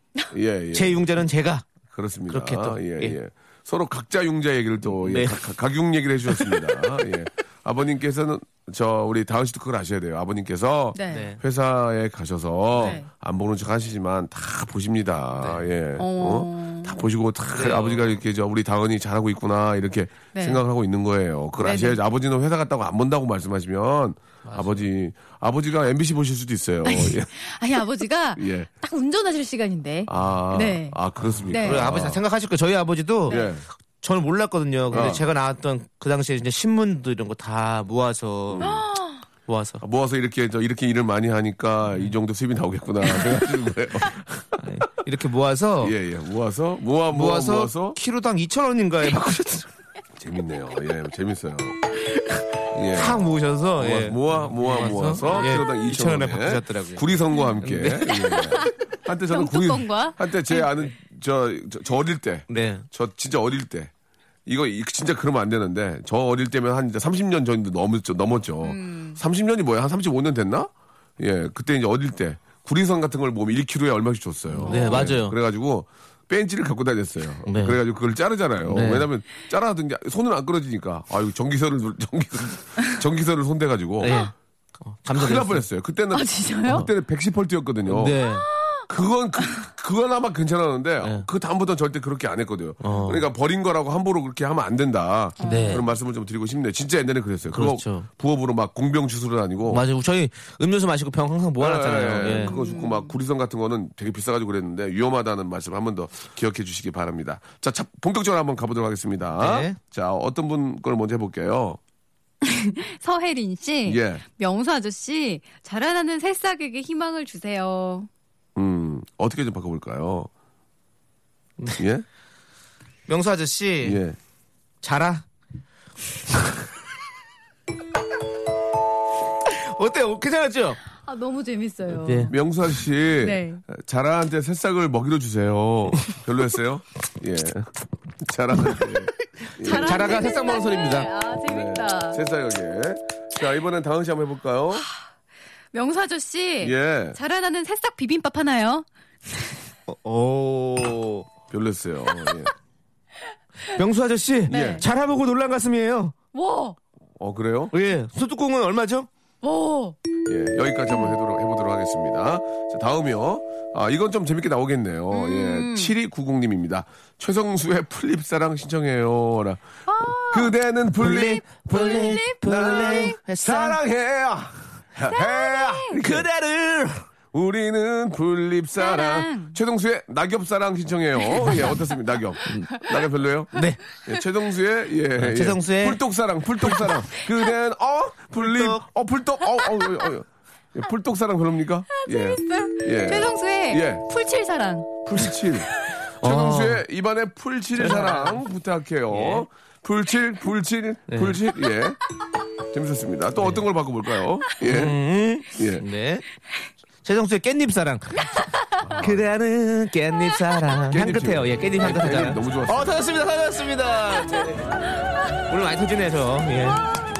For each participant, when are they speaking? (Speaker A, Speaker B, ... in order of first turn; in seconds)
Speaker A: 0.3-1.0, 1.9-27.3, 28.4-28.7, 30.1-32.2, 33.3-33.6, 34.9-35.2, 38.5-38.9, 39.8-44.6, 45.8-48.0, 50.2-51.9, 52.7-53.2, 53.8-63.9, 64.5-84.2, 85.1-88.2, 88.9-99.8, 101.6-111.8, 113.8-114.2, 118.5-120.3, 121.8-122.0, 123.8-124.2, 132.3-140.3, 141.5-144.8, 146.6-147.2, 151.5-152.5, 154.5-154.8, 157.2-157.7, 160.2-171.4, 172.4-176.2, 177.3-194.0, 195.1-202.0, 202.7-204.9, 205.5-205.8, 208.8-209.3, 210.9-212.9
Speaker B: 0.7-1.7, 2.3-3.2, 4.8-5.5, 6.3-6.8, 11.1-11.4, 12.7-13.0, 15.4-15.7, 17.5-18.2, 24.4-24.9, 31.2-33.4, 34.0-38.7, 39.5-39.8, 44.6-46.0, 47.1-49.7, 52.9-57.0, 57.6-58.4, 62.5-62.9, 74.5-75.3, 77.5-77.8, 78.6-79.1, 84.0-85.6, 87.8-88.5, 91.0-91.3, 92.8-93.2, 95.4-95.8, 97.5-98.1, 99.7-102.5, 109.4-109.8, 123.1-124.0, 124.8-125.2, 129.4-130.8, 132.0-132.3, 139.6-141.1, 149.9-151.3, 153.7-156.1, 157.7-159.1, 171.0-173.8, 175.9-177.1, 183.5-183.8, 185.2-186.0, 186.6-186.9, 188.3-188.8, 196.2-196.8, 197.8-198.4, 199.1-199.4, 201.1-201.4, 203.4-203.6, 204.6-206.2, 207.0-214.8, 215.5-216.8
Speaker C: 10.9-11.3, 12.8-13.1, 16.0-17.0, 20.3-20.6, 21.6-22.0, 26.8-31.0, 31.5-31.9, 38.6-39.2, 58.4-58.7, 59.3-60.7, 68.6-69.2, 74.6-75.1, 86.1-86.9, 88.2-88.8, 89.4-89.7, 95.4-95.9, 102.3-103.1, 112.4-118.1, 131.0-132.3, 133.2-133.6, 139.6-142.2, 145.7-149.5, 154.5-154.8, 156.3-156.8, 159.4-160.0, 165.1-165.9, 169.9-173.2, 175.1-176.0, 178.8-179.6, 181.3-181.8, 192.0-195.1